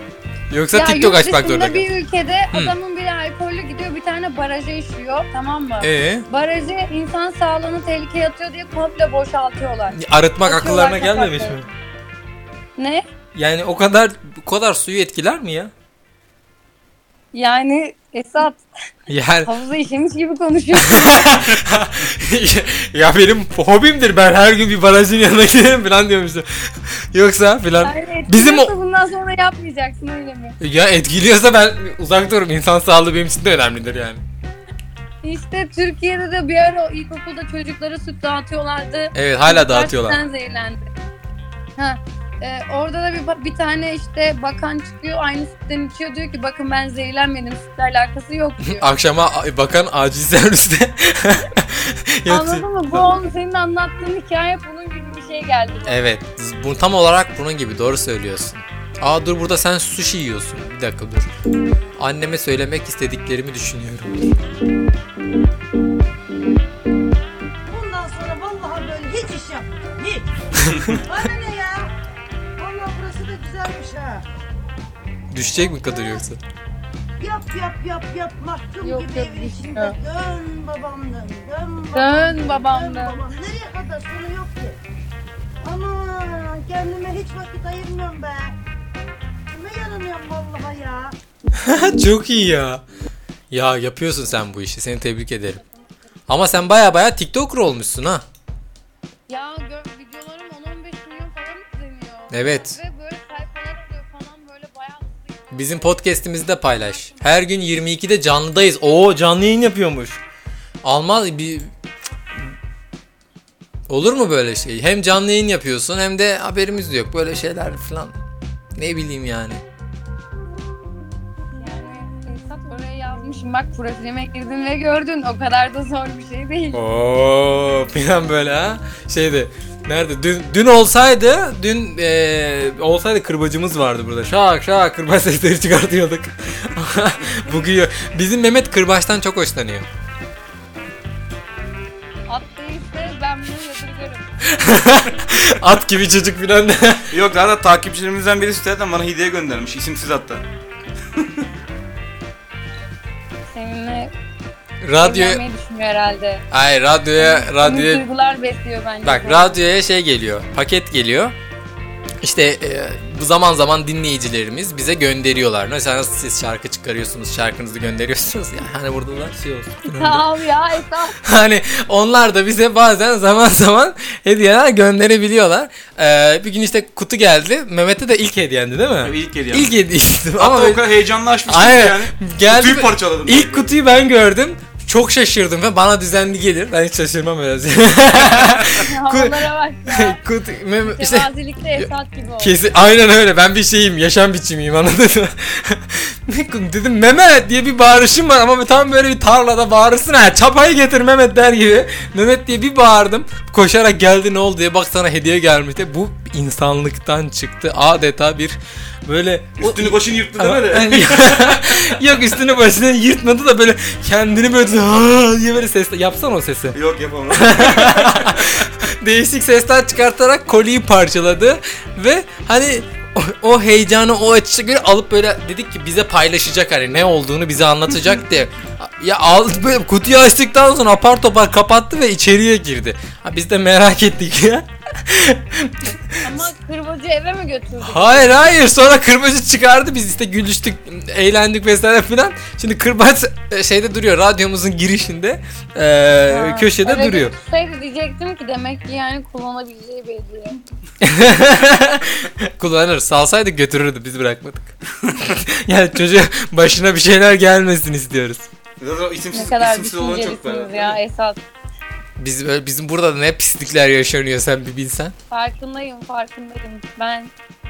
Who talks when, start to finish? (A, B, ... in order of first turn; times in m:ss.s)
0:00.5-0:01.8 A
0:00.7-0:11.6 B
0:05.8-0:06.2 A
0:09.9-0:11.7 A
0:12.8-0:13.1 B
0:13.3-0:15.7 A
0:17.3-0:18.6 B
0:19.1-0:19.5 A
0:19.4-0:21.4 B
0:20.7-0:26.4 A
0:27.1-0:28.7 A
0:27.8-0:30.6 B
0:30.6-0:34.2 A
0:35.2-0:40.9 B
0:39.1-0:40.2 A
0:41.8-0:48.9 B
0:48.6-0:53.0 A
0:52.3-0:56.0 B
0:55.9-1:01.3 A
1:02.0-1:04.3 A
1:07.7-1:11.9 C
1:12.6-1:14.2 C
1:15.3-1:16.4 A
1:17.2-1:24.8 C
1:18.8-1:20.0 B
1:21.9-1:23.2 B
1:25.6-1:28.6 C
1:29.5-1:31.2 C
1:31.6-1:32.8 A
1:33.5-1:35.6 A
1:35.6-1:35.9 B
1:36.3-1:38.2 A
1:39.3-1:47.3 B
1:42.3-1:42.8 A
1:45.5-1:50.2 A
1:50.8-1:51.7 A
1:53.9-1:58.2 A
1:58.8-1:59.6 A
2:01.5-2:06.8 B
2:06.7-2:19.9 A
2:22.3-2:24.3 B
2:24.5-2:27.1 A
2:27.1-2:30.4 D
2:31.2-2:31.4 D
2:33.4-2:34.1 B
2:34.8-2:35.4 A
2:35.0-2:36.5 B
2:36.5-2:38.0 A
2:37.2-2:39.6 B
2:39.0-2:41.3 A
2:42.2-2:50.2 A
2:49.8-2:51.2 B
2:51.2-3:00.8 A
2:59.0-2:59.7 D
3:00.4-3:03.7 D
3:01.5-3:11.9 A
3:08.7-3:10.2 B
3:10.8-3:12.6 B
3:12.4-3:36.8 A
3:29.6-3:31.9 D
3:36.7-3:38.6 D
3:37.3-3:56.5 A
3:56.2-3:58.4 B
3:57.8-4:07.3 A
4:06.3-4:10.6 B
4:11.0-4:18.5 A
4:18.8-4:21.0 D
4:19.3-4:21.4 B
4:22.2-4:25.1 A
4:25.3-4:27.3 B